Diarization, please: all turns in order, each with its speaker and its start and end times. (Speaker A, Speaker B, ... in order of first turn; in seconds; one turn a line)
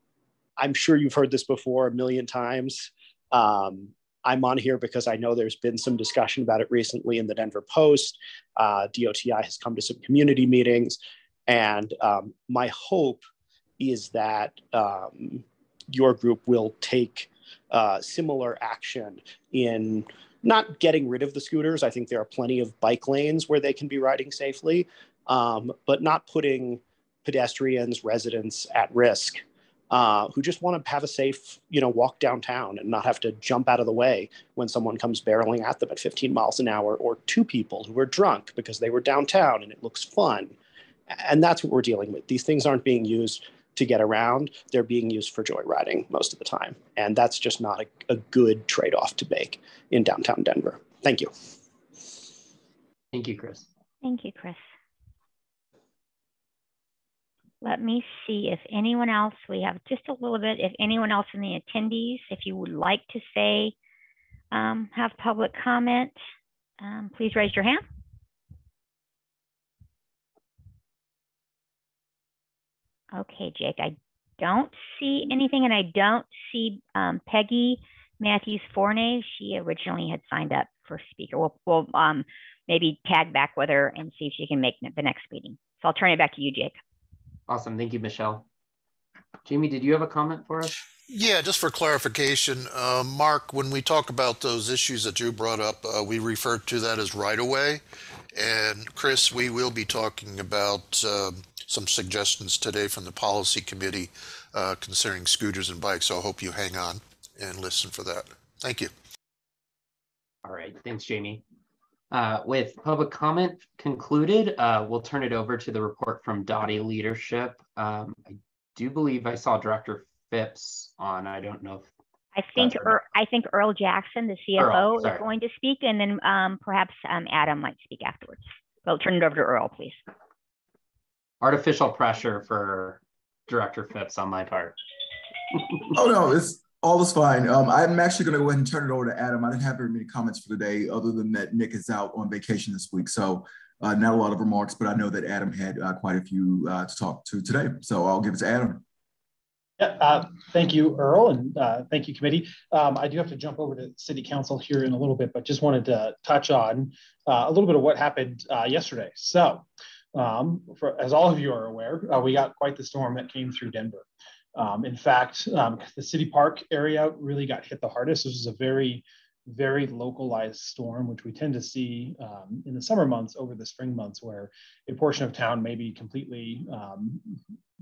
Speaker A: 0.6-13.2
Speaker A: 13.8-40.5
Speaker A: 41.1-51.3
Speaker B: 53.1-53.7
Speaker C: 54.0-54.6
Speaker C: 57.6-63.7
Speaker C: 64.5-66.2
Speaker C: 66.8-67.8
Speaker C: 73.1-86.8
Speaker B: 87.5-88.4
Speaker B: 89.4-90.8
Speaker D: 91.1-97.8
Speaker D: 98.3-108.9
Speaker B: 110.4-111.4
Speaker B: 112.1-121.9
Speaker C: 122.3-130.0
Speaker B: 122.6-123.0
Speaker B: 124.6-125.2
Speaker B: 131.4-134.8
Speaker E: 135.9-148.8
Speaker F: 149.8-177.4